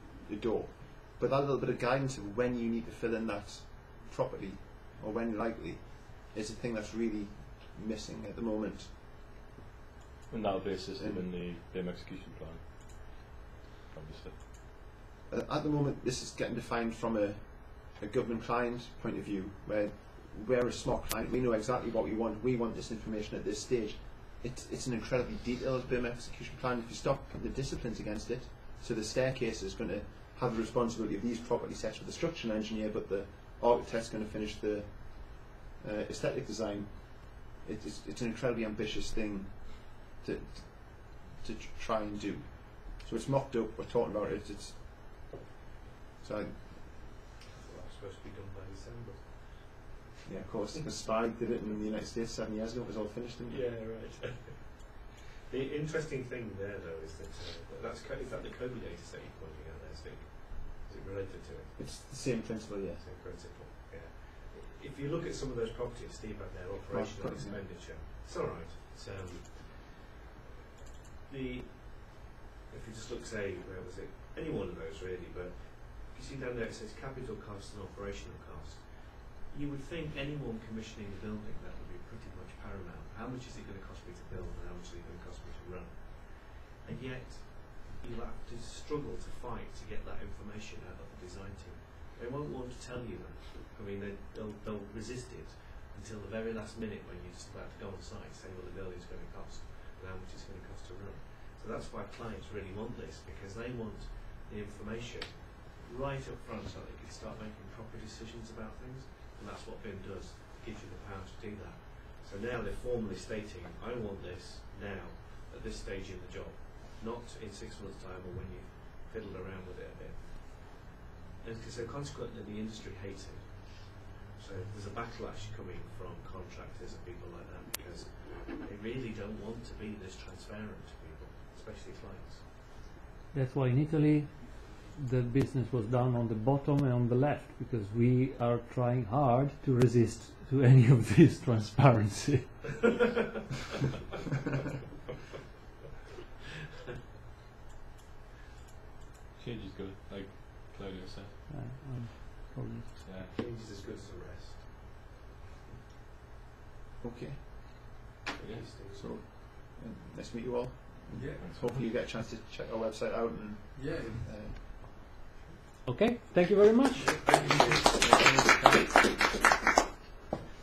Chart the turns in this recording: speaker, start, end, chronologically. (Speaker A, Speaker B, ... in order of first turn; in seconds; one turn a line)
Speaker A: 0.3-8.9
Speaker B: 10.3-13.2
Speaker A: 11.0-11.3
Speaker B: 13.9-14.4
Speaker A: 15.3-45.4
Speaker A: 46.2-46.8
Speaker C: 47.5-49.9
Speaker A: 50.2-53.7
Speaker C: 53.5-61.9
Speaker A: 61.8-63.0
Speaker C: 63.0-70.1
Speaker A: 66.9-67.6
Speaker C: 71.3-132.5
Speaker D: 133.3-142.9
Speaker B: 149.4-151.4
Speaker D: 151.5-152.9
Speaker B: 153.0-153.3
Speaker C: 153.2-155.1
Speaker A: 157.0-158.2
Speaker C: 158.4-159.2
Speaker B: 158.4-158.8
Speaker A: 158.7-164.8
Speaker B: 161.1-161.9
Speaker B: 163.8-164.2
Speaker D: 165.8-167.2
Speaker C: 167.0-167.8
Speaker A: 167.4-169.2